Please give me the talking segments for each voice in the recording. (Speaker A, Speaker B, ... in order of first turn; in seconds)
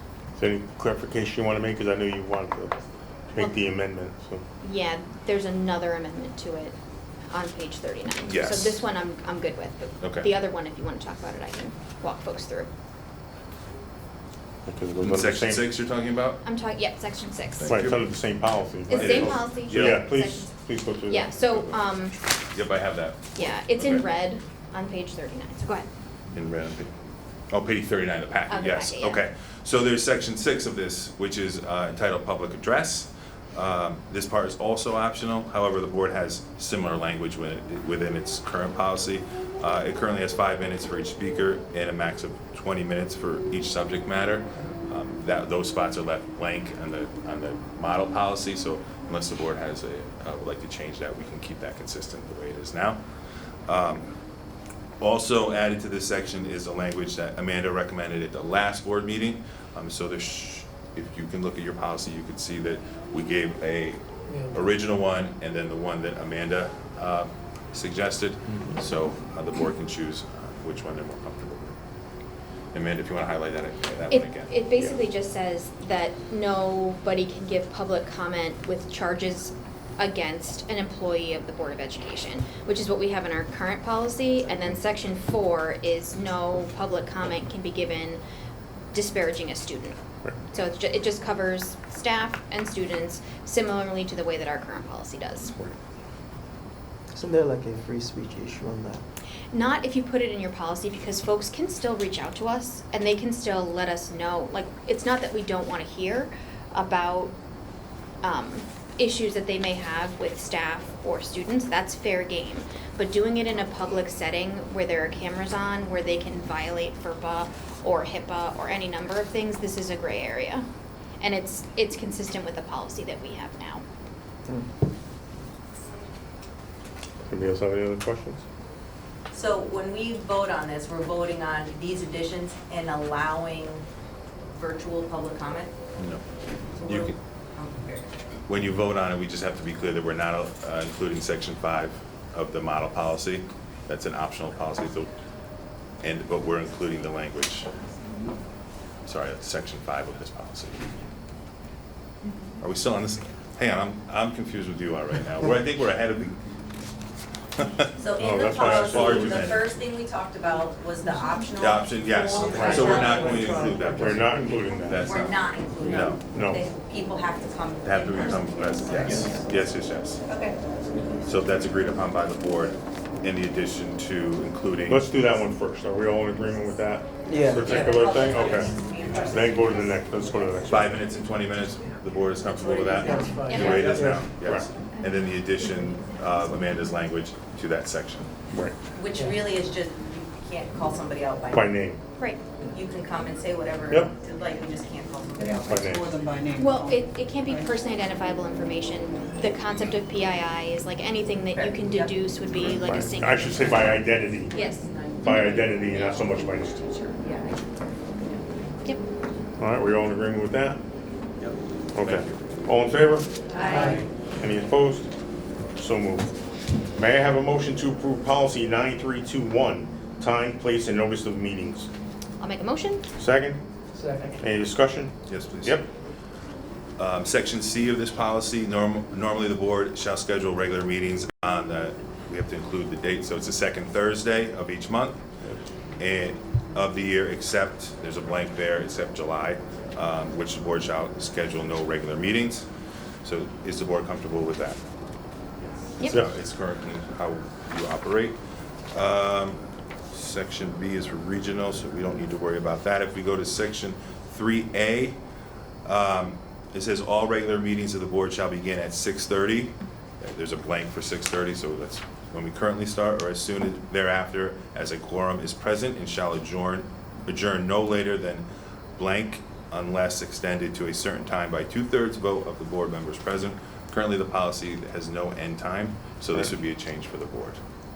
Speaker A: 0.4-4.4, 14.6-15.7, 17.7-21.3, 127.3-128.4, 158.2-159.5, 162.4-163.3, 163.9-165.1, 166.3-166.7, 174.9-178.8, 179.3-180.9, 184.3-184.7, 188.5-188.8, 191.5-192.0, 195.7-196.1, 202.8-204.5, 205.2-206.8, 209.6-210.8, 211.9-213.3, 214.4-215.1, 215.8-216.3, 216.9-221.9, 223.2-223.6, 224.4-225.9
Speaker B: 4.6-6.8, 7.3-12.7, 16.4-17.9, 18.9-20.5, 21.1-22.2, 23.4-25.9, 28.5-29.2, 74.1-88.2, 88.9-90.0, 90.5-95.8, 99.5-107.3, 108.2-120.7, 121.2-123.8, 183.4-184.0, 196.6-207.2, 222.4-223.0
Speaker C: 8.2-8.8, 10.0-10.3, 15.0-16.4, 17.6-18.1, 18.9-20.0, 21.4-21.8, 22.5-24.0, 26.3-26.9, 27.5-53.0, 53.7-54.1, 55.0-71.8, 72.7-74.7, 136.0-136.2, 136.8-137.2, 138.5-145.1, 146.0-147.7, 149.1-150.9, 152.6-156.4, 157.6-157.9, 158.6-159.6, 161.6-166.2, 167.8-170.2, 171.2-175.1, 180.7-188.4, 211.4-212.4, 225.2-225.8, 227.0-235.2, 236.0-242.7, 243.2-244.8, 246.0-248.4, 248.9-249.6, 250.1-255.2, 255.8-277.6
Speaker D: 97.1-99.0, 177.2-177.7
Speaker E: 129.3-133.8, 134.5-135.7, 136.8-138.1, 158.0-163.7, 165.0-169.3, 170.3-170.6, 177.6-180.0, 182.7-183.7, 188.9-191.8, 192.7-196.0, 201.5-202.1, 203.6-205.7, 207.2-207.7, 213.5-214.1
Speaker F: 162.3-163.9, 179.0-179.9, 183.0-184.3, 195.4-197.8, 213.5-214.1, 224.0-224.4